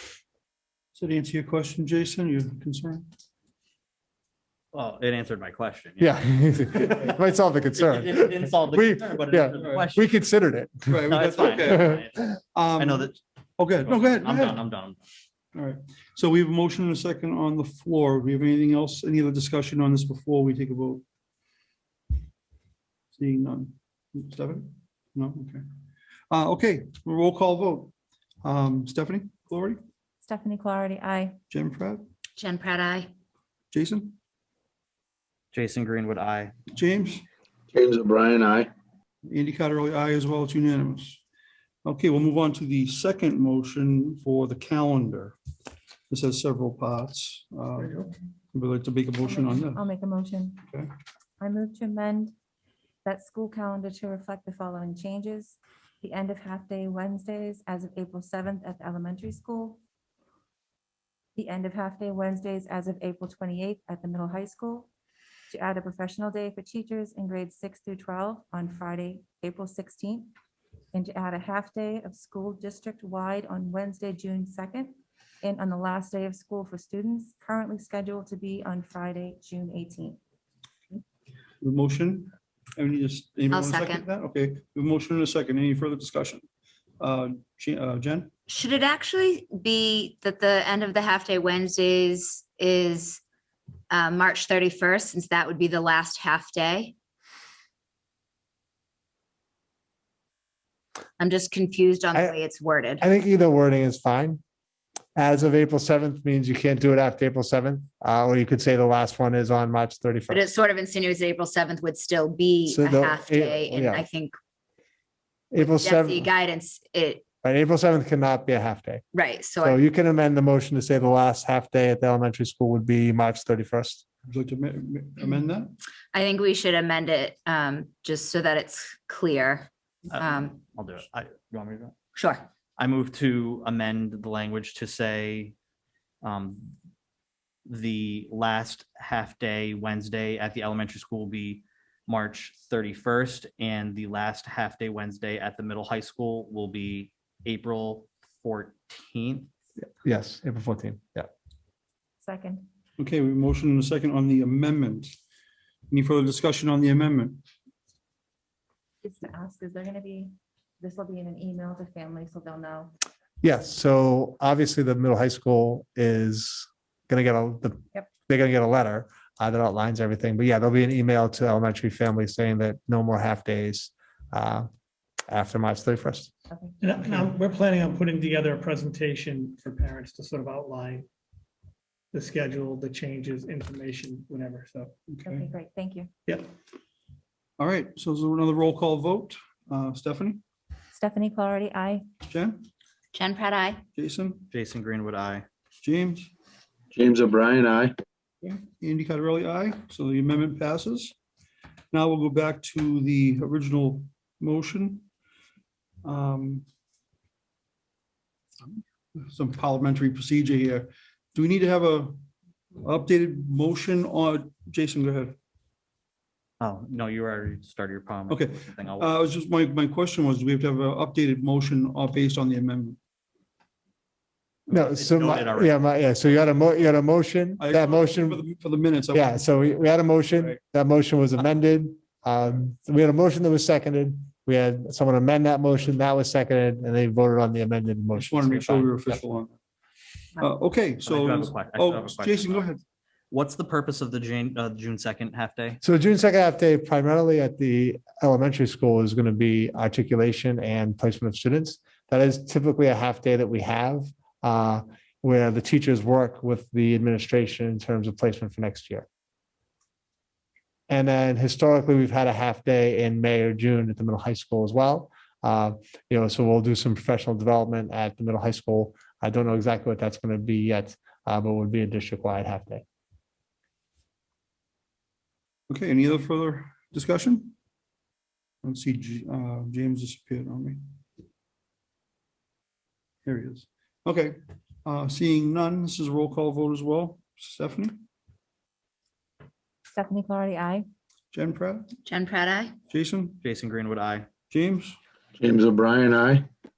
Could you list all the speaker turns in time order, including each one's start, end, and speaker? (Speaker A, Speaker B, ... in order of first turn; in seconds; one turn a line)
Speaker A: 0.9-3.1
Speaker B: 4.7-7.2
Speaker C: 6.0-11.0
Speaker B: 7.7-10.2
Speaker A: 9.6-9.8
Speaker A: 10.9-12.0
Speaker B: 11.1-13.2
Speaker A: 12.5-14.6
Speaker B: 13.8-15.0
Speaker A: 15.5-21.0
Speaker A: 23.1-25.6
Speaker A: 26.3-27.9
Speaker A: 28.4-29.8
Speaker D: 30.2-31.4
Speaker A: 31.5-32.0
Speaker E: 32.4-33.1
Speaker A: 33.7-34.1
Speaker B: 35.5-36.5
Speaker A: 36.7-37.2
Speaker F: 37.7-38.7
Speaker A: 39.2-41.2
Speaker A: 41.8-45.4
Speaker A: 46.1-49.8
Speaker G: 47.8-48.0
Speaker D: 49.2-50.6
Speaker D: 51.4-52.3
Speaker D: 53.0-59.8
Speaker D: 61.4-64.9
Speaker D: 65.5-70.3
Speaker D: 70.9-80.2
Speaker A: 81.6-86.4
Speaker E: 83.5-84.0
Speaker A: 87.0-88.3
Speaker E: 88.5-93.2
Speaker E: 93.9-96.9
Speaker E: 101.2-103.0
Speaker C: 103.0-104.4
Speaker C: 105.2-110.5
Speaker E: 110.3-114.3
Speaker C: 112.7-114.0
Speaker C: 115.5-116.3
Speaker E: 115.5-117.2
Speaker C: 117.4-119.0
Speaker E: 119.1-119.8
Speaker C: 119.6-124.0
Speaker A: 124.2-125.7
Speaker E: 126.1-130.6
Speaker B: 130.1-131.9
Speaker E: 132.2-132.4
Speaker B: 132.8-135.5
Speaker B: 136.2-136.7
Speaker B: 137.7-149.5
Speaker C: 149.8-151.3
Speaker D: 152.2-152.7
Speaker A: 153.0-155.1
Speaker A: 155.9-157.4
Speaker D: 159.0-162.9
Speaker C: 163.4-174.7
Speaker C: 175.3-176.3
Speaker D: 176.5-176.8
Speaker G: 176.8-181.1
Speaker G: 182.1-184.9
Speaker A: 185.1-185.5
Speaker D: 185.2-186.1
Speaker A: 187.6-190.4
Speaker D: 190.9-192.1
Speaker A: 192.3-192.6
Speaker E: 193.1-193.8
Speaker A: 193.9-194.5
Speaker B: 194.5-195.4
Speaker A: 195.8-196.3
Speaker F: 196.9-197.9
Speaker A: 198.4-201.1
Speaker A: 201.9-205.1
Speaker A: 206.0-206.6
Speaker A: 209.2-212.2
Speaker A: 212.8-215.3
Speaker B: 216.6-219.1
Speaker A: 218.3-223.0
Speaker B: 224.7-225.8
Speaker C: 224.7-228.4
Speaker A: 227.6-229.4
Speaker C: 229.1-239.2
Speaker A: 238.1-239.6
Speaker A: 240.4-242.8
Speaker B: 241.0-242.6
Speaker B: 243.3-245.8
Speaker C: 245.8-259.1
Speaker C: 260.9-272.8
Speaker A: 275.7-277.5
Speaker A: 278.6-280.8
Speaker A: 283.2-288.0
Speaker D: 289.9-290.9
Speaker A: 291.3-291.9
Speaker E: 292.0-292.7
Speaker A: 292.9-293.4
Speaker B: 293.4-294.3
Speaker A: 294.5-295.0
Speaker F: 295.4-296.5